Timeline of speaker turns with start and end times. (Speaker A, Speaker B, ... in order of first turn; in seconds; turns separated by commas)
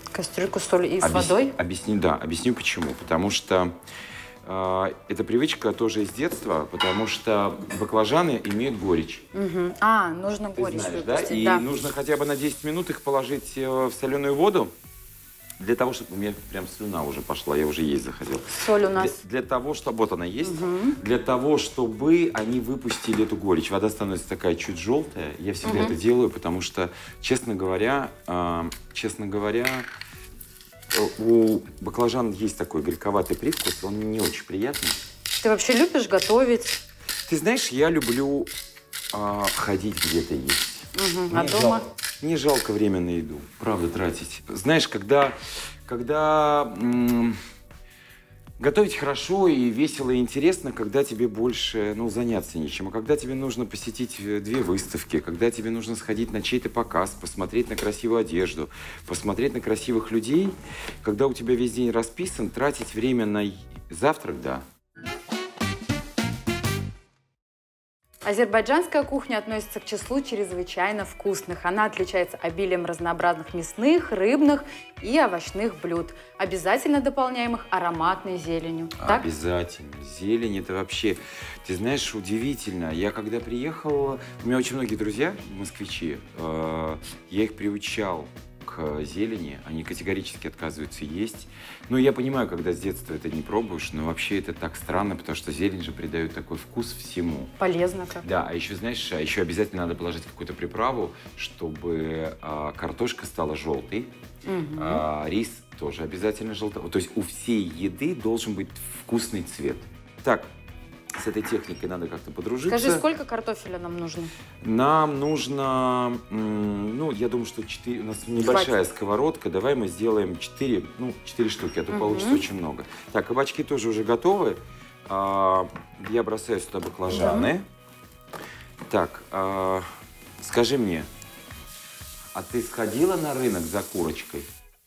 Speaker A: 0.1-1.5, Speaker B: 1.0-3.7, Speaker B: 4.4-9.2, Speaker A: 9.3-11.6, Speaker B: 10.6-14.7, Speaker B: 15.6-29.9, Speaker A: 18.5-19.2, Speaker A: 20.4-21.0, Speaker A: 25.6-25.9, Speaker B: 30.9-35.0, Speaker A: 35.4-36.8, Speaker B: 37.3-38.5, Speaker B: 39.1-47.4, Speaker A: 40.9-41.8, Speaker B: 48.6-64.6, Speaker A: 68.2-79.2, Speaker B: 79.0-97.5, Speaker A: 97.6-98.2, Speaker B: 98.2-104.1, Speaker A: 104.4-105.0, Speaker B: 104.8-110.5, Speaker B: 111.2-113.0, Speaker A: 112.7-114.3, Speaker B: 114.6-127.6, Speaker A: 118.4-118.8, Speaker A: 121.9-122.4, Speaker A: 127.1-127.5, Speaker B: 128.9-129.8, Speaker B: 130.4-131.1, Speaker B: 132.3-134.5